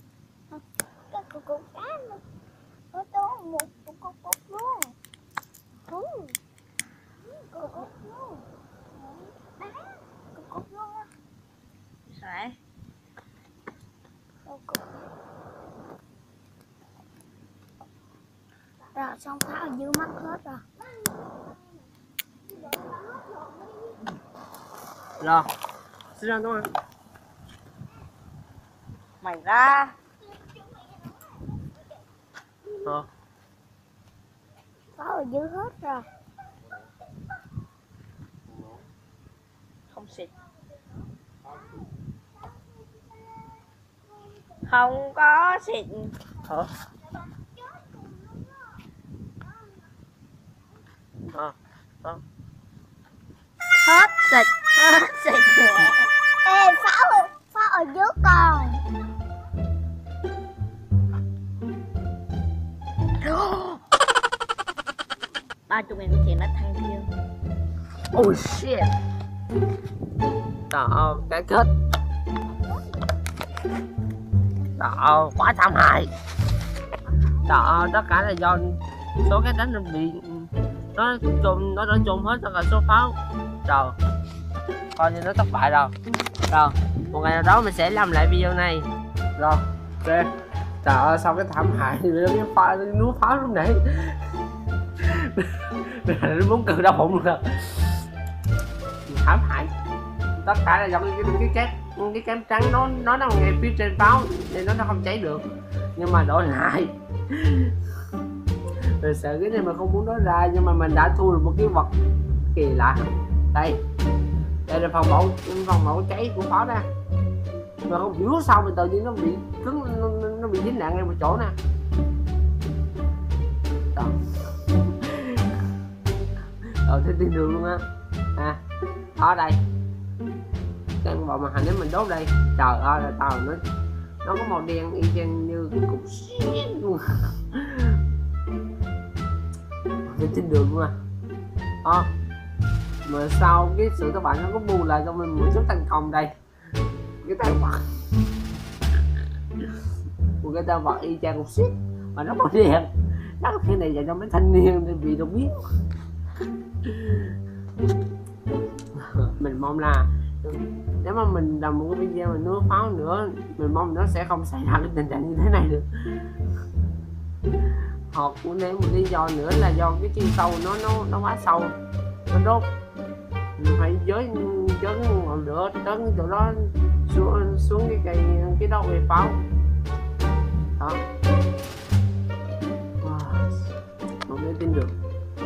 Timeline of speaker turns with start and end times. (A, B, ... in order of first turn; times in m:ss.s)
0:00.5-0:02.2 A
0:02.9-0:04.9 A
0:05.9-0:06.4 A
0:07.5-0:08.4 A
0:09.0-0:11.1 A
0:12.1-0:12.6 B
0:14.4-0:15.0 A
0:18.9-0:20.6 A
0:22.7-0:23.5 A
0:25.2-0:25.5 C
0:26.1-0:26.7 C
0:29.2-0:29.9 B
0:32.8-0:33.1 C
0:35.0-0:36.1 A
0:39.9-0:40.3 B
0:44.6-0:46.1 B
0:51.3-0:52.2 C
0:53.8-0:56.1 B
0:56.4-0:58.8 A
1:03.2-1:03.8 B
1:05.7-1:07.1 B
1:08.1-1:08.9 C
1:10.7-1:11.7 C
1:14.8-1:16.1 C
1:17.4-1:24.0 C
1:25.0-1:25.9 C
1:26.5-1:30.3 C
1:30.8-1:34.3 C
1:35.0-1:38.0 C
1:39.1-1:39.7 C
1:40.4-1:47.8 C
1:49.0-1:51.9 C
1:52.5-1:53.8 C
1:54.7-1:56.8 C
1:57.9-2:01.5 C
2:03.9-2:05.6 C
2:06.8-2:07.8 C
2:09.2-2:09.6 C
2:11.0-2:13.6 C
2:14.2-2:18.0 C
2:20.0-2:20.9 C
2:21.8-2:22.1 C
2:23.0-2:26.3 C
2:27.2-2:27.8 C
2:30.4-2:35.6 C
2:36.8-2:37.4 C
2:39.0-2:46.3 C
2:48.1-2:51.8 C
2:52.3-2:52.7 C
2:53.6-2:59.4 C
3:03.0-3:03.7 C
3:04.2-3:04.9 C